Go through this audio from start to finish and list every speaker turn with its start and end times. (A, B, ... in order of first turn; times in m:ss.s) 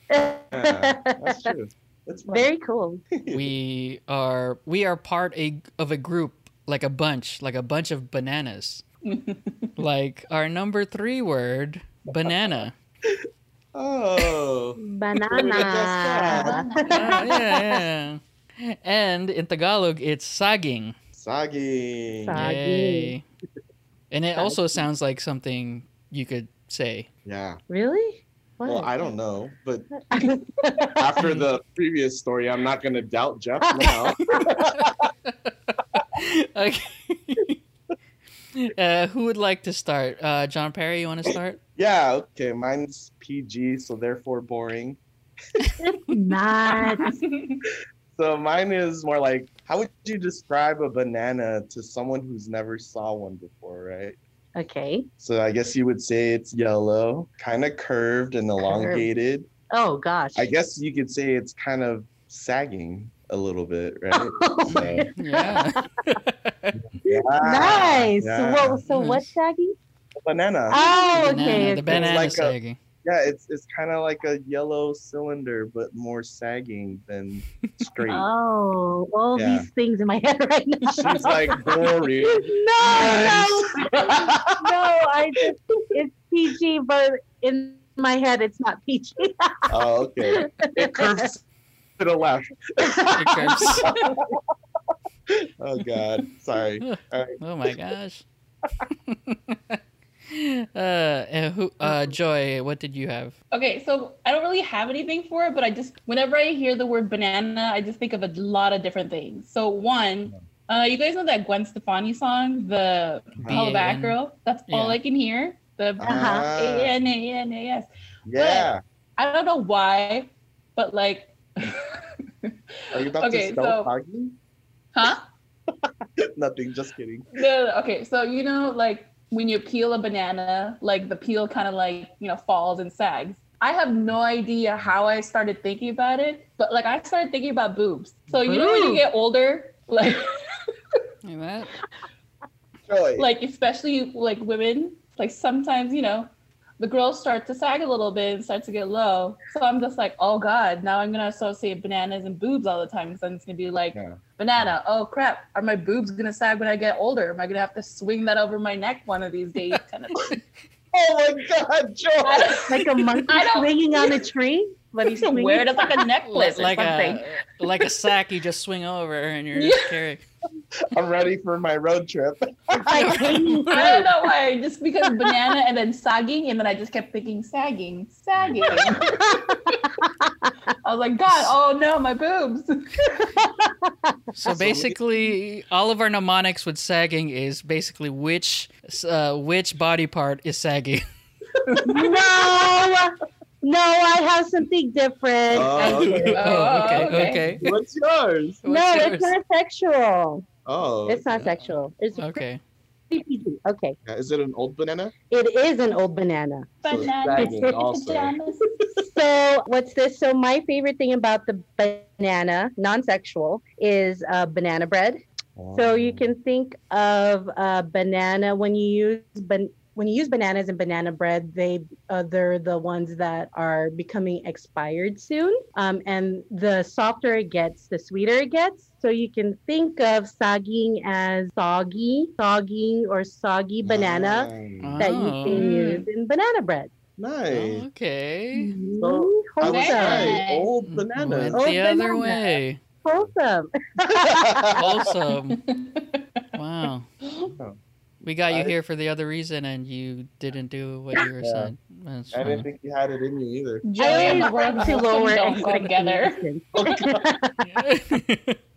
0:00.1-0:01.5 A
0:00.5-0:02.5 B
0:02.3-0:03.0 A
0:03.1-0:03.5 B
0:03.3-0:08.8 C
0:09.0-0:09.7 D
0:09.8-0:12.7 C
0:13.7-0:14.8 B
0:14.8-0:17.8 A
0:15.3-0:16.6 B
0:16.3-0:17.4 D
0:16.9-0:20.9 C
0:21.1-0:22.4 B
0:22.2-0:23.1 A
0:22.3-0:23.2 C
0:24.1-0:27.1 C
0:27.2-0:27.6 B
0:27.7-0:28.9 A
0:28.6-0:29.9 B
0:30.1-0:31.0 A
0:31.0-0:35.1 B
0:33.7-0:33.9 A
0:34.8-0:37.6 C
0:38.5-0:41.6 C
0:41.8-0:45.0 B
0:45.8-0:47.1 A
0:46.9-0:47.6 D
0:48.1-0:54.2 B
0:54.6-0:55.0 A
0:55.2-0:59.5 B
0:58.6-0:59.1 A
0:59.7-1:00.5 A
1:00.4-1:05.1 B
1:04.1-1:05.8 A
1:04.6-1:06.7 C
1:06.7-1:08.8 B
1:07.1-1:09.8 A
1:08.9-1:09.3 C
1:10.2-1:18.2 B
1:10.7-1:12.2 A
1:10.8-1:11.1 D
1:11.1-1:12.8 C
1:18.1-1:21.7 A
1:19.3-1:19.7 B
1:20.9-1:24.7 B
1:22.2-1:29.7 A
1:29.7-1:31.4 B
1:30.3-1:31.3 A
1:32.0-1:34.4 B
1:33.1-1:33.9 C
1:33.8-1:34.1 D
1:35.4-1:37.4 B
1:36.8-1:38.2 C
1:38.9-1:43.3 C
1:43.5-2:02.5 D
1:53.4-1:53.6 B
1:53.5-1:54.2 C
1:54.7-1:55.0 C
1:56.0-1:56.9 B
1:56.0-1:56.5 A
1:58.2-1:58.8 B
2:02.9-2:04.4 B
2:03.2-2:03.9 D
2:04.9-2:05.2 D
2:06.2-2:07.3 B
2:07.3-2:20.3 D
2:18.4-2:19.0 A
2:21.2-2:21.8 C
2:22.9-2:23.3 B
2:23.2-2:40.3 D
2:33.9-2:34.7 B
2:40.9-2:42.8 B
2:42.2-2:44.2 D
2:42.7-2:45.8 A
2:45.0-2:47.2 D
2:46.3-2:50.2 C
2:49.6-2:49.9 D
2:50.9-2:53.3 B
2:52.8-2:54.1 A
2:53.0-2:54.0 C
2:53.7-2:59.5 D
2:58.4-2:59.2 B
2:59.3-3:00.5 A
3:00.8-3:03.3 D
3:01.3-3:01.5 C
3:03.4-3:04.1 A
3:04.3-3:11.0 C
3:04.4-3:05.0 B
3:11.6-3:11.9 D
3:11.8-3:16.2 A
3:15.5-3:18.6 B
3:15.8-3:17.6 D
3:16.0-3:17.6 C
3:18.6-3:19.3 C
3:18.6-3:20.4 A
3:20.6-3:21.6 B
3:21.1-3:22.4 A
3:22.2-3:22.6 C
3:23.1-3:24.0 A
3:24.0-3:25.1 B
3:25.3-3:26.8 A
3:26.8-3:28.8 D
3:26.8-3:28.8 B
3:27.3-3:27.7 A
3:29.1-3:35.2 A
3:35.6-3:36.3 B
3:35.7-3:56.9 A
3:53.8-3:55.0 B
3:54.8-3:55.6 C
3:55.5-3:56.1 D
3:57.2-3:57.8 B
3:57.5-3:58.7 C
3:58.5-4:00.4 A
3:59.0-4:01.7 B
3:59.6-4:00.7 D
4:00.9-4:02.8 C
4:01.5-4:02.5 A
4:03.0-4:04.8 A
4:04.1-4:05.1 B
4:04.8-4:05.6 C
4:05.5-4:06.2 D
4:06.5-4:07.1 C
4:07.5-4:07.8 B
4:08.2-4:12.6 C
4:08.5-4:08.7 B
4:11.4-4:11.7 B
4:12.3-4:15.0 B
4:13.8-4:16.4 D
4:14.0-4:17.7 A
4:16.7-4:17.3 B
4:17.6-4:18.6 C